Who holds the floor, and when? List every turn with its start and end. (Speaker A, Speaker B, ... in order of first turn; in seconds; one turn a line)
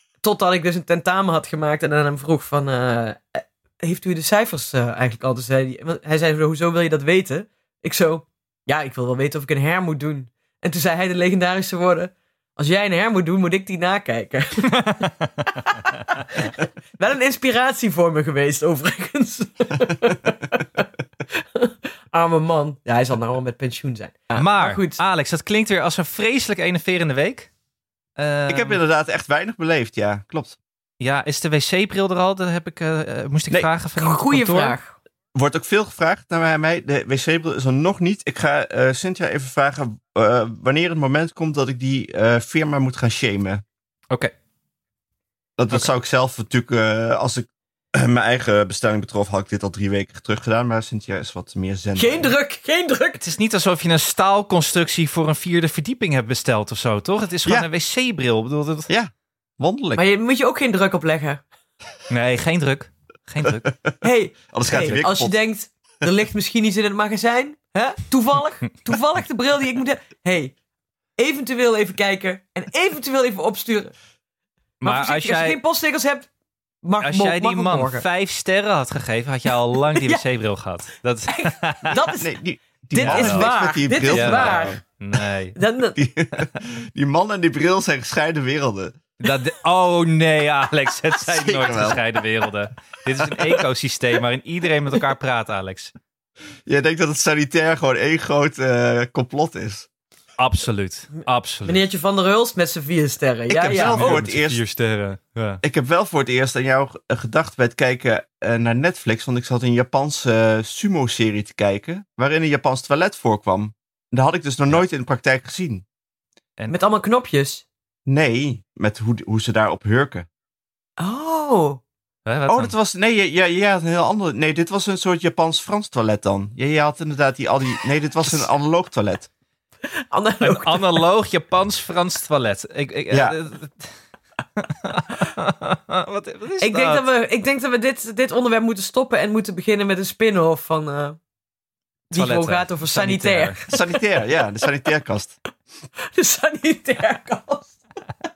Speaker A: 0.2-25.0
Speaker B: 14.8-15.1
Speaker B: 24.4-27.5
Speaker B: 28.2-28.8
Speaker C: 28.5-30.6
Speaker B: 31.0-34.8
Speaker A: 34.0-35.0
Speaker C: 35.4-43.6
Speaker C: 45.6-52.3
Speaker A: 52.0-53.2
Speaker B: 53.2-58.9
Speaker C: 58.9-60.0
Speaker A: 60.0-61.4
Speaker B: 62.1-63.7
Speaker A: 64.0-70.5
Speaker C: 64.5-65.3
Speaker A: 71.2-73.9
Speaker B: 74.8-75.6
Speaker A: 74.8-76.3
Speaker A: 76.8-78.0
Speaker B: 77.0-82.1
Speaker A: 79.7-80.2
Speaker A: 81.3-82.3
Speaker C: 82.1-84.8
Speaker A: 82.9-84.8
Speaker B: 83.0-83.5
Speaker B: 84.1-85.6
Speaker A: 85.5-86.0
Speaker C: 86.0-89.0
Speaker B: 89.2-95.9
Speaker C: 91.3-92.0
Speaker C: 96.7-99.9
Speaker B: 100.4-101.8
Speaker A: 101.7-104.2
Speaker B: 103.5-105.6
Speaker C: 103.7-104.6
Speaker C: 105.6-115.8
Speaker A: 116.7-117.7
Speaker C: 118.1-120.3
Speaker A: 121.0-121.8
Speaker B: 122.3-122.7
Speaker C: 122.5-129.3
Speaker A: 129.9-131.0
Speaker B: 130.4-133.9
Speaker C: 133.1-133.4
Speaker B: 134.6-137.1
Speaker A: 136.6-141.2
Speaker A: 142.1-143.8
Speaker B: 142.1-143.7
Speaker C: 143.7-145.4
Speaker A: 146.0-147.8